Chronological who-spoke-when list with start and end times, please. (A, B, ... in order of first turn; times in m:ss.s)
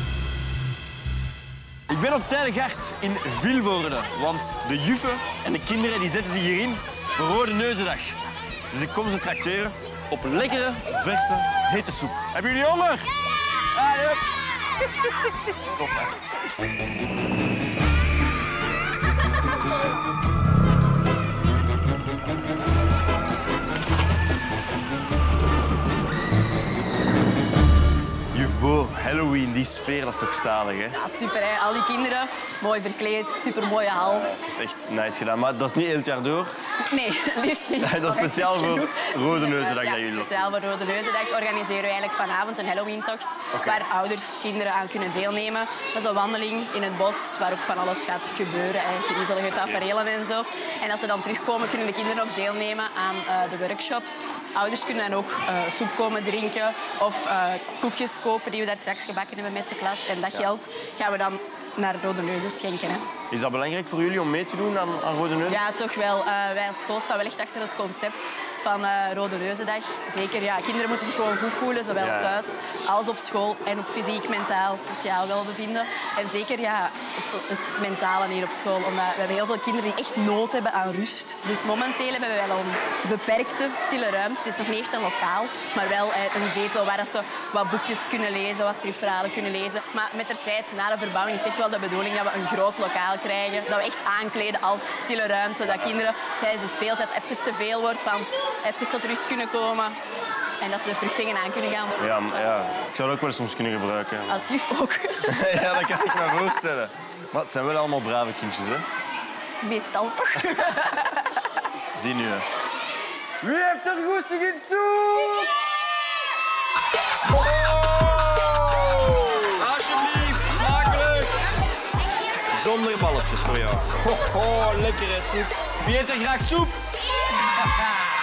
0:01.9-0:08.2 A
0:08.7-0:13.1 A
0:13.7-0:14.2 A
0:15.7-0:16.1 A
0:28.3-0:31.0 A
0:30.9-0:34.3 B
0:34.0-0:36.5 A
0:36.9-1:03.0 B
0:37.8-0:40.5 A
0:43.5-0:43.8 A
1:03.3-1:05.6 A
1:05.5-1:40.0 B
1:12.0-1:12.4 A
1:40.6-1:42.4 B
1:42.0-1:44.4 A
1:44.3-1:46.5 B
1:45.2-1:48.8 A
1:49.6-1:51.4 B
1:51.9-1:52.4 A
1:53.4-1:55.5 A
1:57.3-2:01.3 A
2:02.5-2:06.8 A